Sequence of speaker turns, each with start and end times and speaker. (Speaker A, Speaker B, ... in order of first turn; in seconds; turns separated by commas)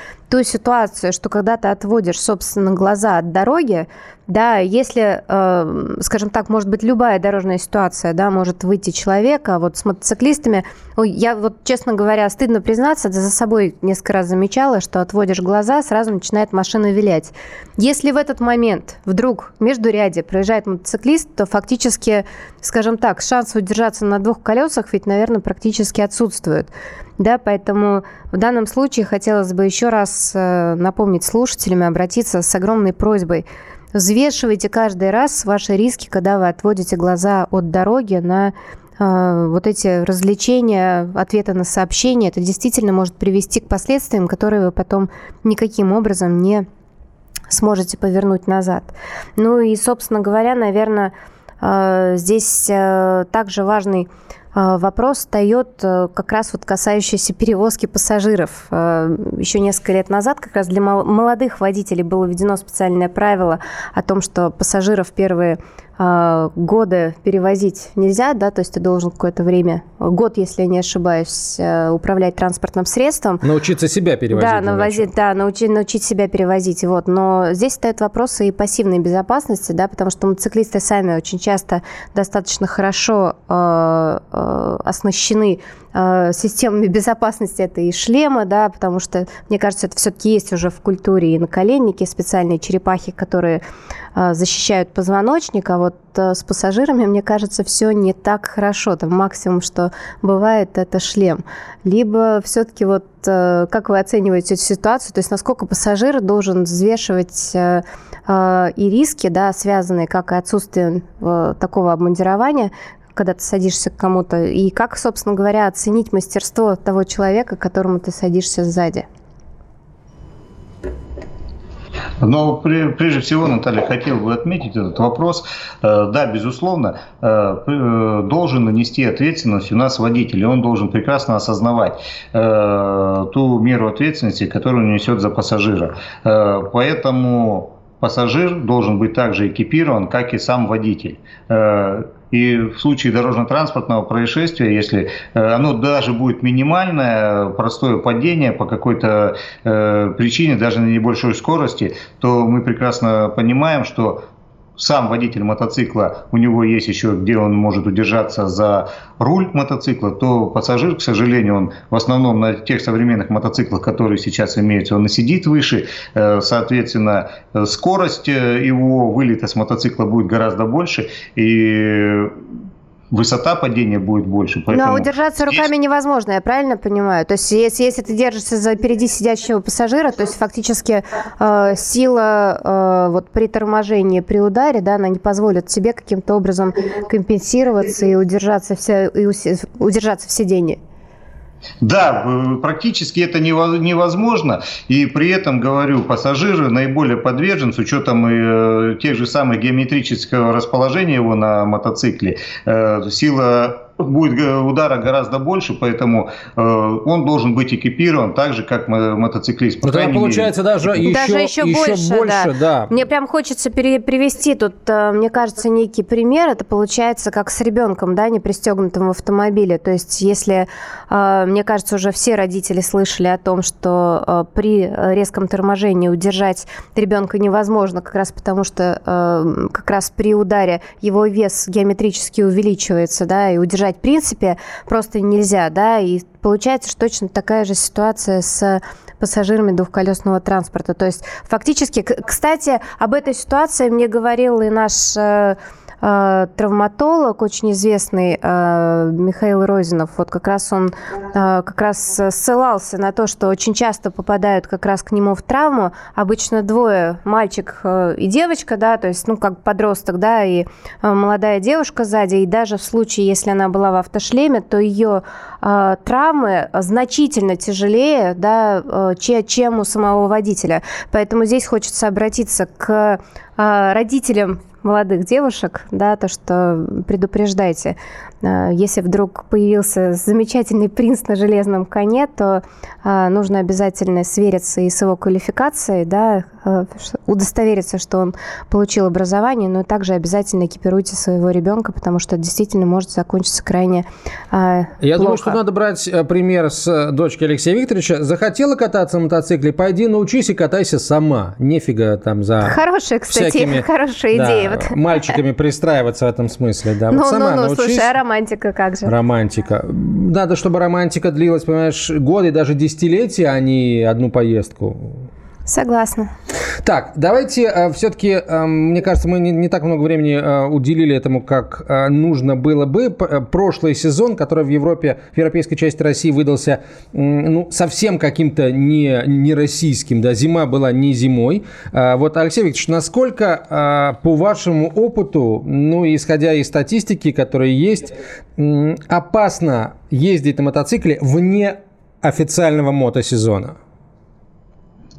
Speaker A: 0.3-46.6, Speaker A: 47.5-73.4, Speaker B: 73.4-75.1, Speaker A: 74.3-93.6, Speaker A: 94.1-119.0, Speaker C: 122.2-154.2, Speaker C: 154.8-172.4, Speaker C: 173.1-175.7, Speaker A: 174.7-190.8, Speaker C: 191.8-210.6, Speaker B: 209.8-212.9, Speaker A: 211.0-295.6, Speaker B: 295.0-302.8, Speaker A: 302.6-305.4, Speaker B: 303.3-308.1, Speaker A: 307.1-309.1, Speaker B: 309.1-315.1, Speaker A: 315.7-316.3, Speaker B: 316.8-343.8